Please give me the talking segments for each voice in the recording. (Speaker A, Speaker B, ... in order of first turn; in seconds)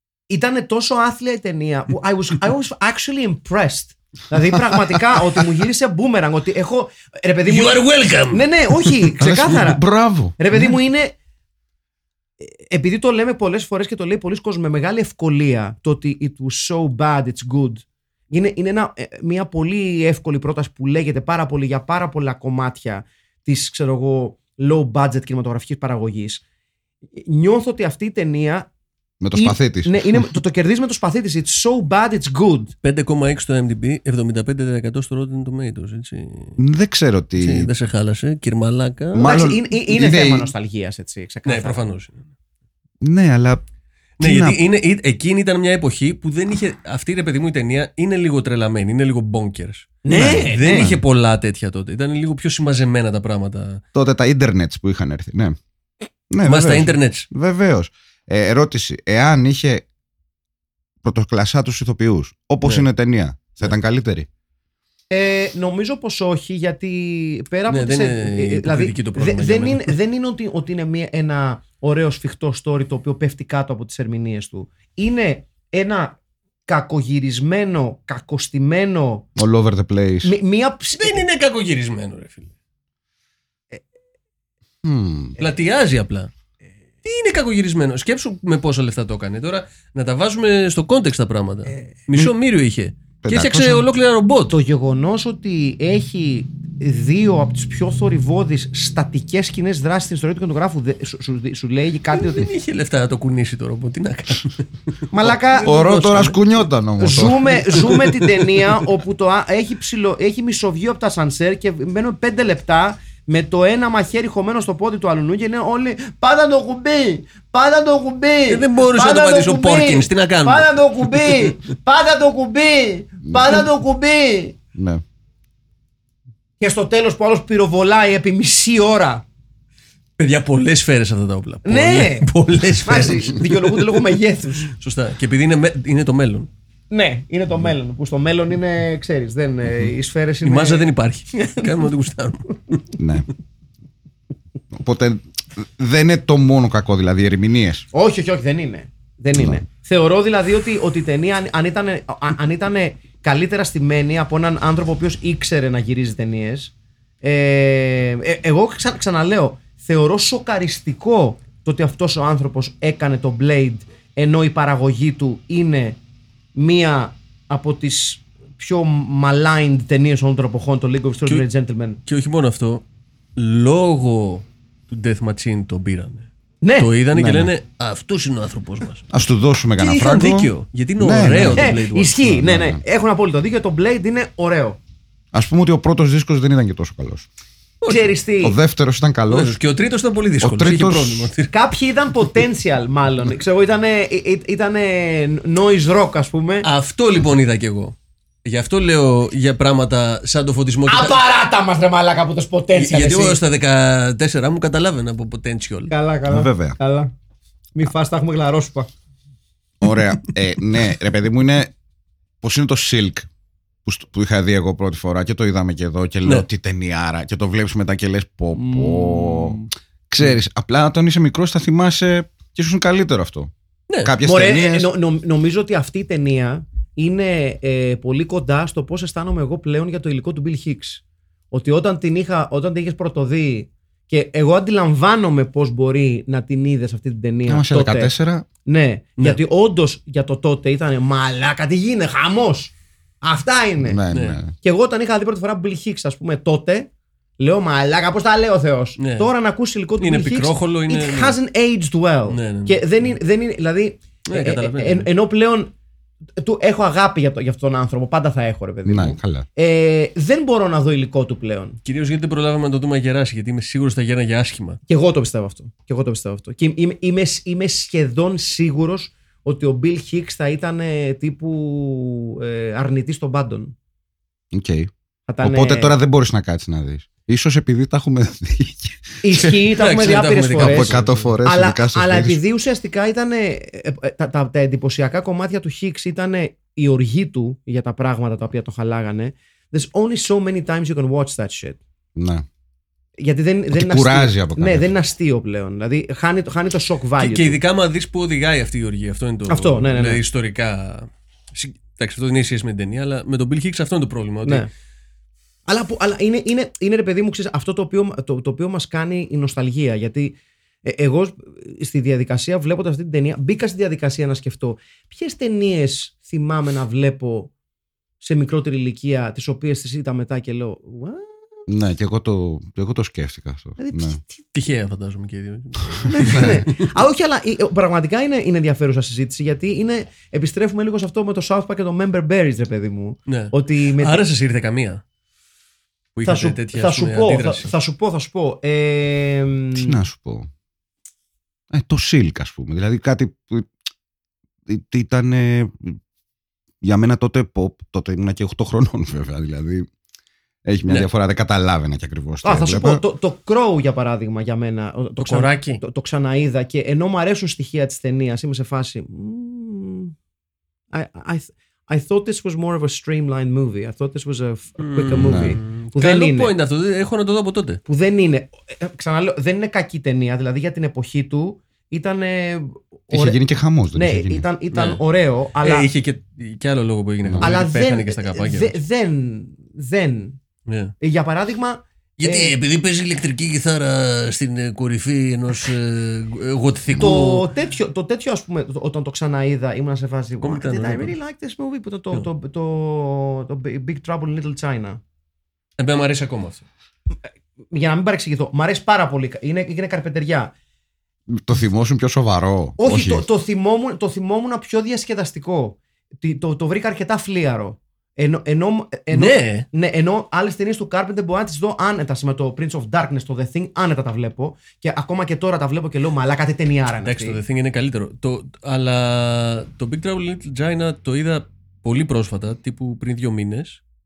Speaker A: 0.3-11.1, 12.4-26.4, 27.1-28.7, 29.3-32.7, 39.2-41.8, 50.0-50.9, 65.1-76.2, 76.7-79.3, 80.2-81.2, 94.5-102.5, 105.1-105.8, 107.0-124.6, 126.6-129.2, 131.7-132.3, 132.8-134.7, 136.9-141.7, 147.9-166.0, 166.5-172.0, 176.6-176.9, 181.5-184.8, 187.9-188.6, 191.5-196.7, 200.9-203.4, 205.9-207.1, 207.7-208.9, 218.5-219.6, 224.2-238.1, 238.7-244.0, 244.5-255.7, 256.4-261.8, 264.9-273.7, 275.3-275.9, 279.2-291.8, 293.2-297.6, 299.5-300.2, 305.7-317.5, 318.2-321.3, 323.8-324.4, 326.1-334.2, 336.2-340.0, 352.4-360.1, 360.9-366.5, 367.9-373.4, 373.9-375.9, 377.4-380.4, 381.0-382.6, 387.0-395.0, 397.7-400.5, 402.8-417.4
Speaker B: 7.5-8.9, 32.8-36.6, 37.4-39.3, 41.5-42.3, 44.2-53.8, 56.4-57.3, 67.7-69.9, 81.0-82.5, 85.4-86.3, 87.0-94.5, 102.1-106.4, 107.7-108.7, 118.5-121.5, 130.2-134.0, 134.7-136.5, 140.4-142.8, 172.1-172.8, 173.3-179.1, 179.8-182.2, 187.8-188.1, 189.3-191.5, 196.6-201.2, 202.7-205.9, 223.9-224.1, 244.1-244.4, 249.0-249.3, 250.0-251.4, 252.3-253.1, 254.3-255.1, 261.8-264.8, 279.8-281.3, 297.2-304.7, 324.5-326.9, 333.3-335.0, 336.1-337.7, 355.2-355.8, 364.8-367.8, 374.7-375.0, 375.6-378.8, 380.7-380.9, 382.2-387.5, 390.4-391.1, 395.8-396.6, 409.1-409.6, 417.0-423.8
Speaker C: 9.2-10.4, 29.2-30.3, 36.6-37.7, 39.1-40.5, 43.0-43.6, 44.2-44.6, 50.1-51.0, 53.9-55.6, 56.3-59.8, 61.0-64.3, 79.4-80.3, 84.8-85.4, 93.2-93.8, 105.6-107.6, 123.2-123.7, 124.7-125.0, 143.0-143.3, 144.7-147.8, 177.1-177.5, 179.1-182.8, 185.3-187.3, 188.4-189.5, 190.4-191.3, 206.3-206.8, 209.8-211.7, 212.4-213.3, 213.8-223.5, 224.0-224.9, 237.5-238.5, 243.8-244.5, 258.8-259.4, 274.5-274.9, 275.4-279.6, 280.6-282.4, 292.1-292.4, 293.7-294.9, 321.7-324.2, 326.3-326.6, 339.7-340.5, 341.7-343.7, 344.7-346.0, 346.8-349.9, 350.6-353.0, 365.2-365.6, 373.1-374.4, 377.2-377.5, 401.3-403.2